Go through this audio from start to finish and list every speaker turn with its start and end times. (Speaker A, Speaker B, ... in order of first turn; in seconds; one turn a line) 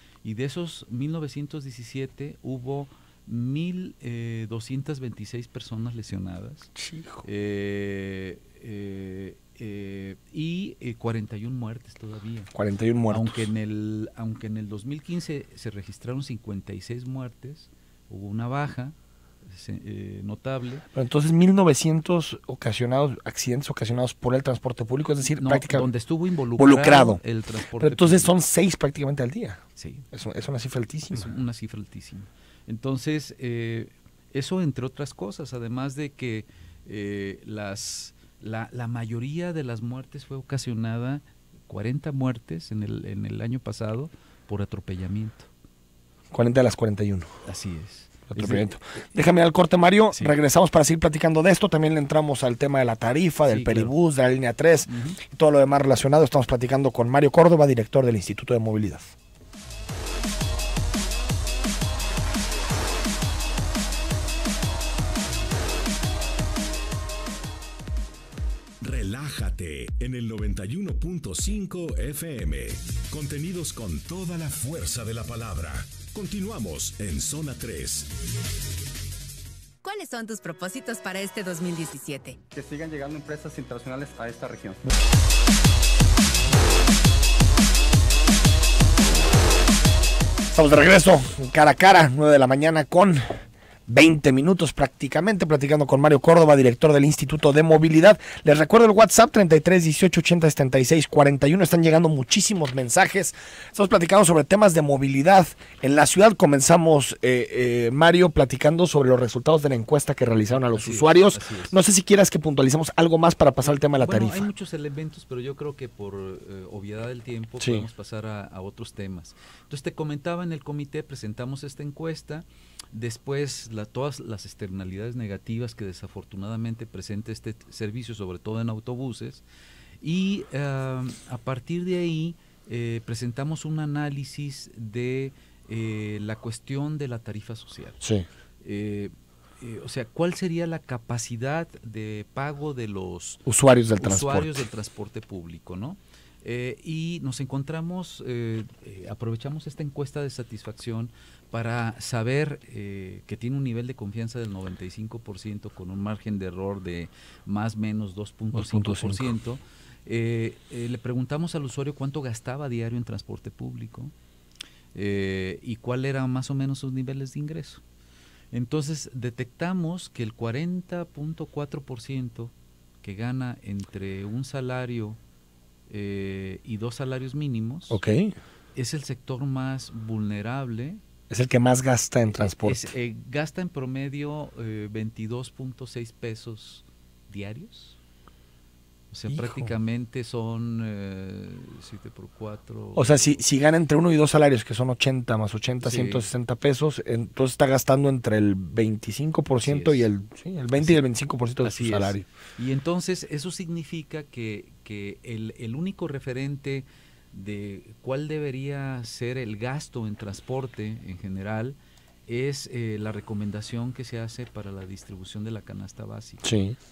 Speaker A: 0.2-6.7
Speaker B: 6.8-7.2
Speaker A: 7.2-12.5
Speaker B: 12.5-13.4
Speaker A: 13.1-18.9
Speaker A: 19.4-20.9
Speaker B: 20.9-25.9
Speaker A: 25.4-28.3
Speaker B: 26.6-27.2
Speaker B: 27.8-31.3
Speaker A: 29.8-30.1
Speaker A: 31.1-45.5
Speaker B: 46.3-47.3
Speaker A: 47.4-49.2
Speaker B: 48.3-59.1
Speaker A: 53.5-53.9
Speaker A: 54.9-55.2
Speaker C: 68.8-78.1
Speaker D: 79.8-82.4
Speaker E: 82.5-84.8
Speaker B: 90.5-93.2
Speaker B: 93.9-114.5
Speaker A: 110.7-111.8
Speaker A: 113.6-129.4
Speaker B: 117.6-117.8
Speaker A: 130.0-138.0
Speaker B: 138.0-138.2
Speaker A: 138.6-143.4
Speaker B: 143.4-144.6
Speaker A: 144.0-164.1
Speaker B: 158.5-159.3
Speaker A: 164.9-167.8
Speaker A: 168.5-175.2
Speaker A: 175.9-178.0
Speaker B: 177.9-178.3
Speaker A: 178.7-181.0
Speaker B: 181.3-182.9
Speaker A: 182.3-188.0
Speaker A: 189.1-193.4
Speaker B: 189.3-189.7
Speaker B: 192.9-202.2
Speaker A: 195.8-196.3
Speaker A: 199.6-200.1
Speaker A: 201.6-216.5
Speaker B: 216.4-216.8